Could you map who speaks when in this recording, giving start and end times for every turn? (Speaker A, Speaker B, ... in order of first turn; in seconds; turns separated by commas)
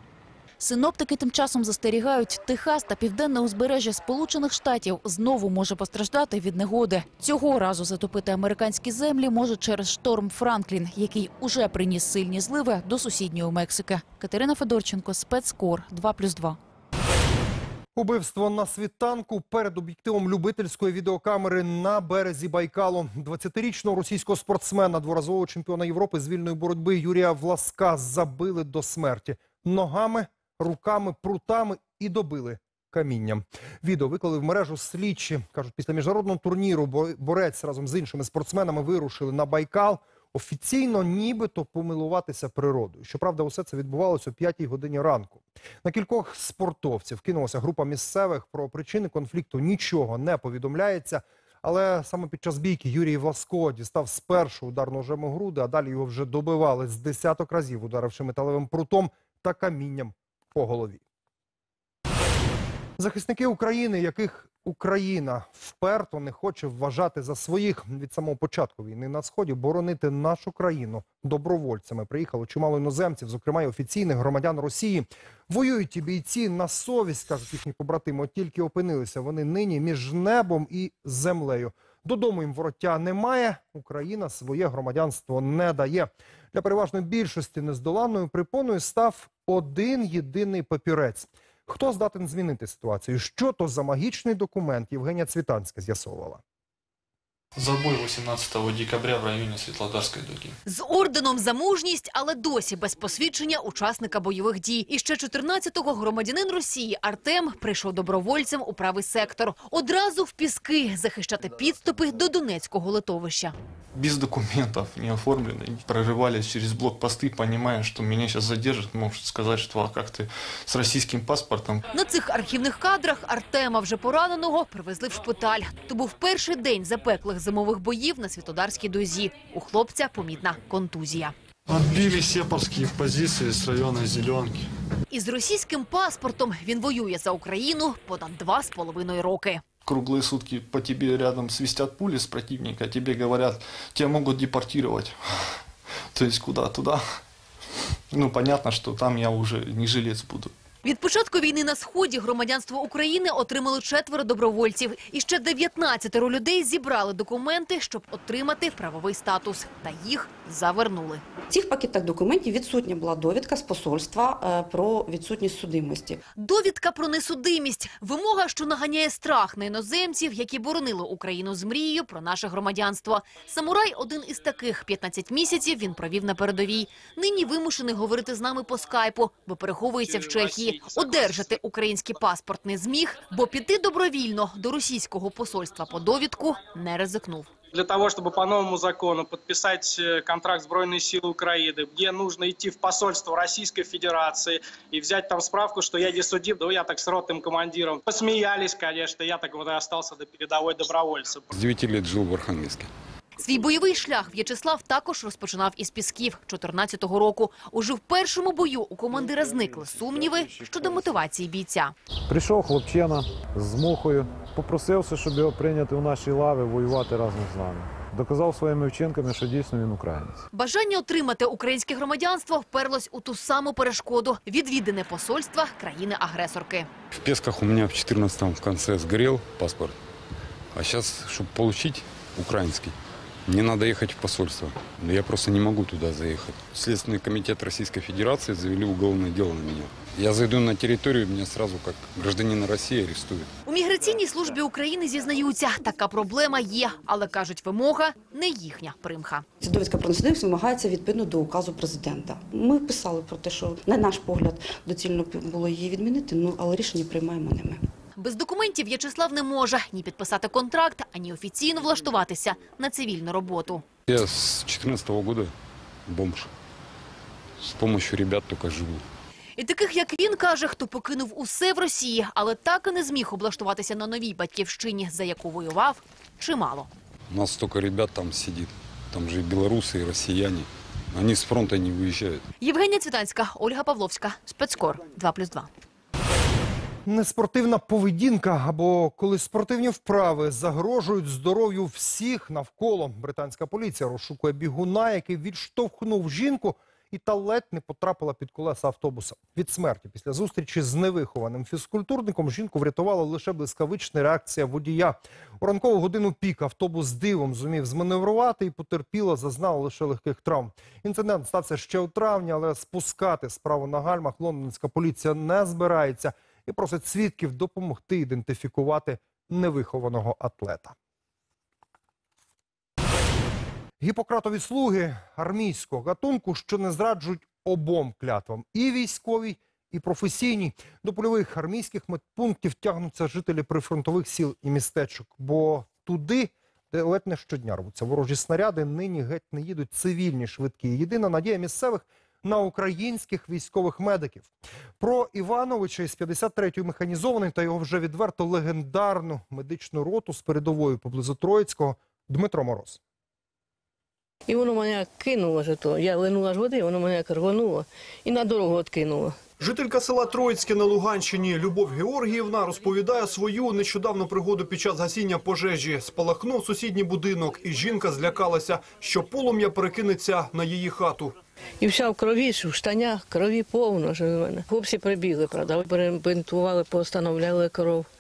Speaker A: 0.6-16.6, Speaker B: 17.9-61.0, Speaker B: 63.0-96.4, Speaker C: 97.5-100.5, Speaker D: 100.7-113.5, Speaker C: 113.9-121.8, Speaker D: 121.9-131.3, Speaker C: 131.7-134.6, Speaker D: 135.1-139.6, Speaker C: 139.8-145.2, Speaker C: 146.1-147.0, Speaker C: 148.1-150.5, Speaker D: 150.8-161.2, Speaker E: 161.5-166.2, Speaker D: 166.4-187.5, Speaker F: 180.0-181.6, Speaker F: 187.7-201.5, Speaker G: 201.5-202.9, Speaker D: 203.4-211.9, Speaker H: 212.3-220.4, Speaker D: 220.5-226.9, Speaker G: 227.1-229.9, Speaker G: 230.7-232.9, Speaker G: 233.4-243.5, Speaker D: 243.7-249.4, Speaker E: 249.6-257.8, Speaker D: 258.2-263.9, Speaker G: 264.1-265.5, Speaker G: 266.1-266.5, Speaker G: 267.6-269.0, Speaker D: 269.6-276.9, Speaker G: 277.3-282.4, Speaker D: 282.6-285.7, Speaker B: 287.1-320.9, Speaker B: 324.0-353.0, Speaker I: 354.5-359.4, Speaker J: 359.6-371.4, Speaker I: 371.8-378.1